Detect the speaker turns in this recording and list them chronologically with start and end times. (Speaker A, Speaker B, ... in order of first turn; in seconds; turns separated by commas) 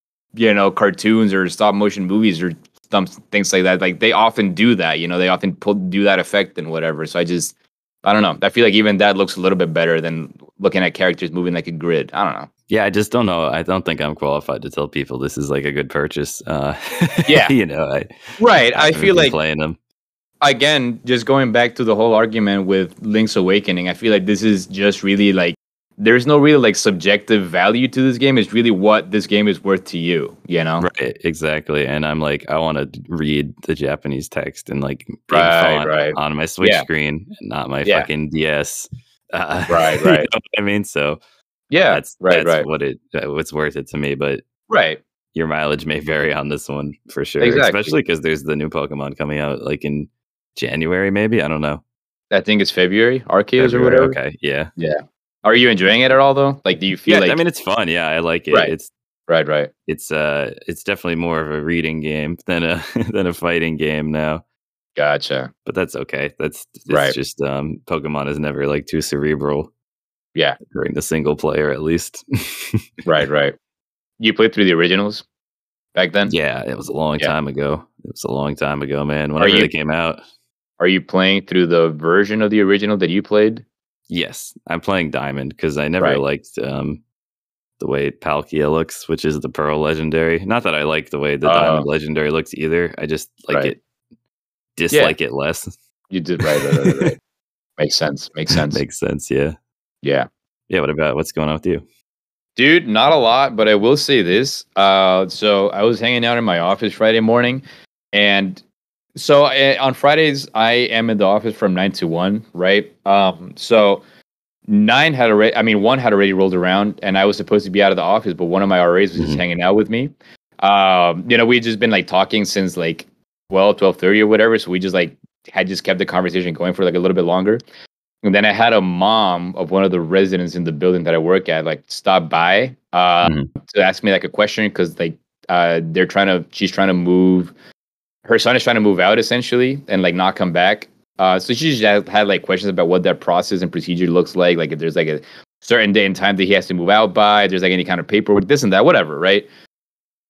Speaker A: 0.3-12.5, Speaker B: 12.7-19.8, Speaker A: 17.2-17.5, Speaker A: 18.4-19.4, Speaker A: 20.4-30.9, Speaker B: 30.8-41.2, Speaker A: 35.3-36.9, Speaker A: 39.7-40.3, Speaker A: 41.7-42.7, Speaker B: 41.9-44.4, Speaker A: 44.7-45.0, Speaker B: 45.3-51.8, Speaker A: 47.4-47.9, Speaker A: 52.3-54.2, Speaker B: 53.6-54.7, Speaker A: 54.8-57.4, Speaker B: 57.1-58.9, Speaker A: 59.3-59.7, Speaker B: 59.9-64.4, Speaker A: 65.0-65.5, Speaker B: 65.6-69.7, Speaker A: 66.9-67.2, Speaker B: 70.6-72.8, Speaker A: 73.0-73.5, Speaker A: 74.2-75.2, Speaker A: 75.9-76.3, Speaker B: 76.3-80.2, Speaker A: 79.4-79.7, Speaker A: 80.8-83.6, Speaker B: 84.1-87.0, Speaker B: 87.8-93.8, Speaker A: 91.4-91.9, Speaker B: 94.8-95.7, Speaker A: 96.1-97.2, Speaker B: 96.4-97.1, Speaker A: 97.8-98.8, Speaker B: 98.5-99.5, Speaker A: 100.0-100.3, Speaker B: 100.7-101.8, Speaker A: 102.6-108.6, Speaker A: 109.2-114.0, Speaker A: 114.7-127.6, Speaker B: 119.2-119.4, Speaker A: 128.2-137.5, Speaker A: 138.2-149.5